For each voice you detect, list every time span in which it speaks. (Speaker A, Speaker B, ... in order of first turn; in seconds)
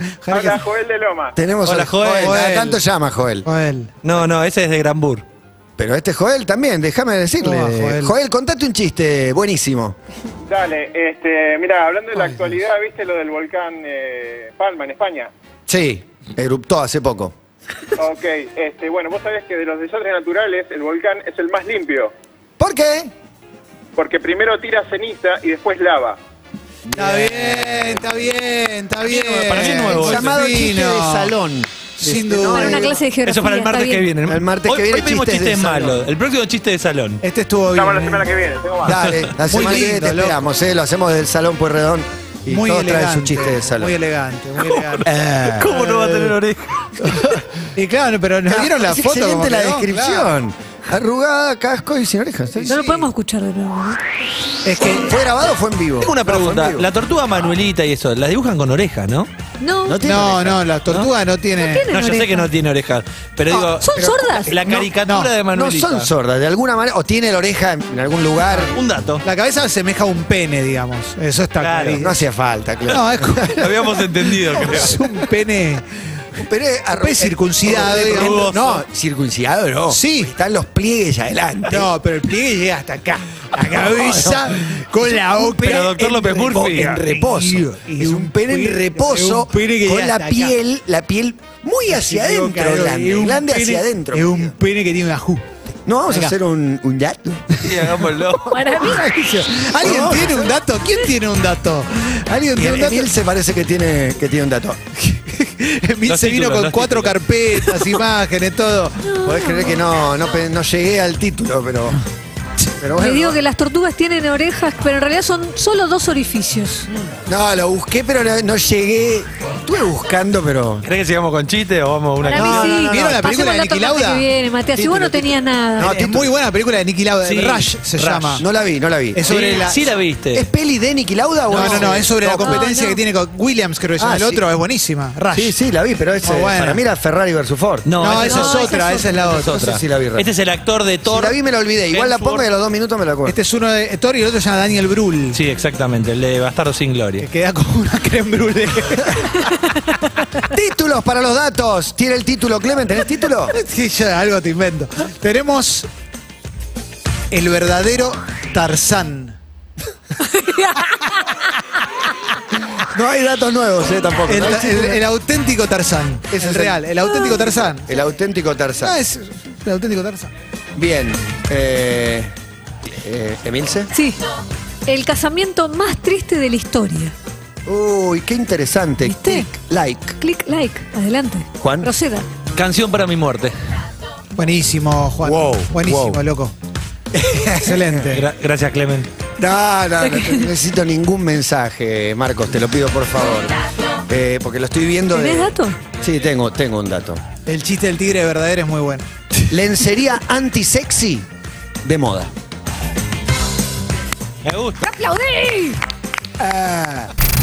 Speaker A: 0.2-0.6, 2.2-2.8, 3.4-3.9, 7.4-8.2, 26.9-31.3, 32.0-33.0, 37.2-38.3, 39.4-40.5, 42.5-46.3, 47.8-50.3, 52.5-53.1, 54.6-55.1, 60.0-61.9, 65.1-65.3, 69.2-72.2, 72.9-73.7, 74.5-75.9, 77.0-78.5, 79.9-80.3, 81.7-90.6, 91.9-95.4, 96.1-96.3, 98.5-103.1, 105.0-109.1, 122.9-128.4, 129.1-129.8, 131.5-135.6, 136.2-136.8, 138.0-139.8, 143.3-145.4, 147.2-149.5, 153.5-155.9, 157.3-159.4, 164.3-167.9, 168.8-170.3, 184.3-186.5, 187.6-188.2, 197.5-199.1, 206.4-207.1
Speaker B: 0.3-1.4, 10.5-15.3, 18.0-22.1, 24.0-26.2, 37.7-39.0
Speaker C: 1.4-3.5, 5.8-10.0, 15.7-17.3, 22.6-23.1, 26.9-28.3, 29.1-33.0, 34.2-36.0, 38.8-44.0, 45.1-46.0, 47.0-47.4, 48.5-52.8, 54.8-56.9, 59.9-60.6, 63.5-64.9, 65.5-68.8, 72.0-73.7, 74.5-74.9, 76.4-81.9, 83.5-94.5, 95.9-97.7, 99.8-100.5, 102.5-104.8, 109.2-112.0, 112.8-113.4, 117.3-120.9, 122.3-122.9, 125.8-126.3, 128.4-129.3, 130.3-132.7, 134.0-134.4, 135.3-138.4, 139.1-140.3, 141.1-143.4, 150.5-153.6, 162.9-165.0, 166.3-169.0, 170.8-172.3, 172.9-173.9, 177.7-180.2, 181.6-181.9, 185.2-186.2, 187.1-188.1, 189.4-197.2, 199.5-201.3, 201.8-202.3
Speaker D: 1.6-2.4, 4.0-5.2, 29.1-30.2, 33.2-37.2, 38.9-39.3, 44.6-46.9, 56.0-59.3, 61.9-66.1, 68.7-69.2, 71.6-72.0, 73.6-74.9, 77.8-78.8, 85.4-87.1, 97.6-98.5, 106.1-107.2, 120.8-123.0, 127.2-128.4, 129.2-130.5, 131.5-131.9, 137.9-138.7, 139.5-141.4, 141.9-142.4, 145.3-147.3, 182.5-183.6, 188.1-189.1, 204.4-204.9
Speaker E: 32.5-34.1, 52.7-54.0, 59.6-60.0, 61.6-62.5, 63.8-64.5, 98.5-99.1, 109.0-109.8, 112.9-116.9, 122.2-125.9, 132.4-133.0, 138.1-139.1, 160.3-161.0, 173.9-174.2, 174.9-177.1, 179.1-179.5, 180.2-182.3, 190.0-190.5, 195.1-195.8, 204.8-205.8